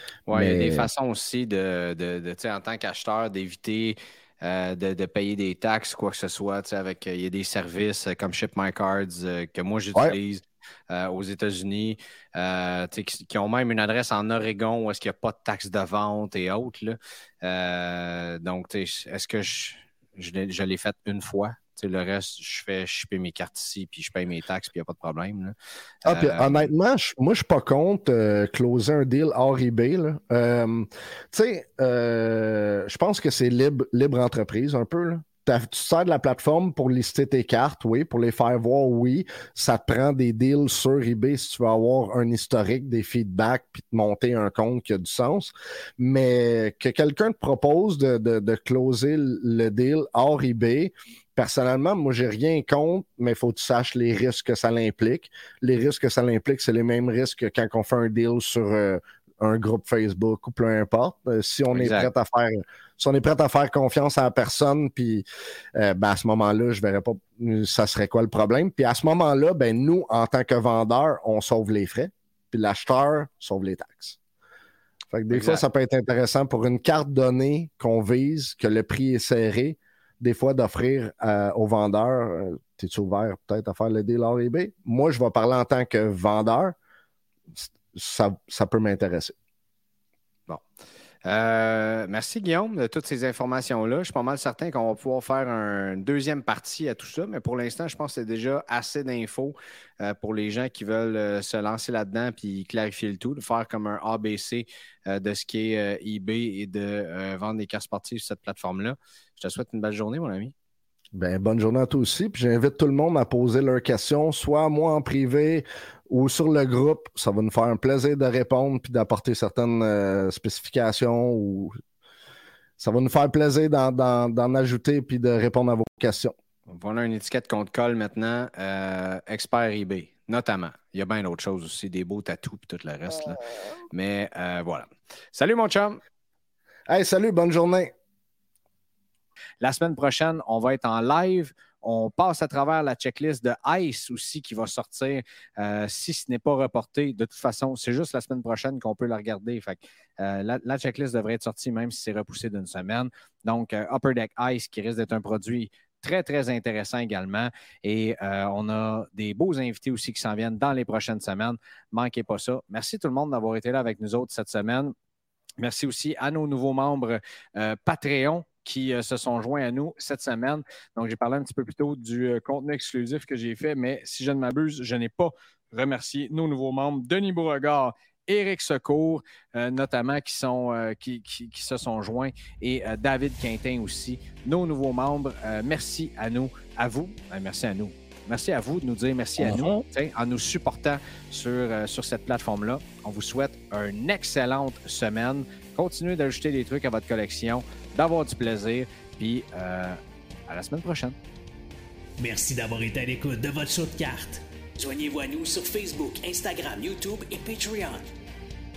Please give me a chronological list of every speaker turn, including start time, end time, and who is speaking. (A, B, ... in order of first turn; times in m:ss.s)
0:00.3-0:25.6 A
0:00.3-0:00.9 B
0:26.1-0:26.7 A
0:26.1-1:14.2 B
1:01.7-1:02.1 A
1:15.1-1:26.8 B
1:15.3-1:15.6 A
1:27.6-1:29.4 B
1:31.2-1:50.5 A
1:51.2-2:01.8 B
2:02.8-2:06.4 B
2:06.7-2:13.4 A
2:13.9-2:16.0 A
2:16.9-2:17.9 B
2:19.6-2:44.9 A
2:45.6-3:21.2 A
3:09.4-3:09.8 B
3:22.2-3:28.0 C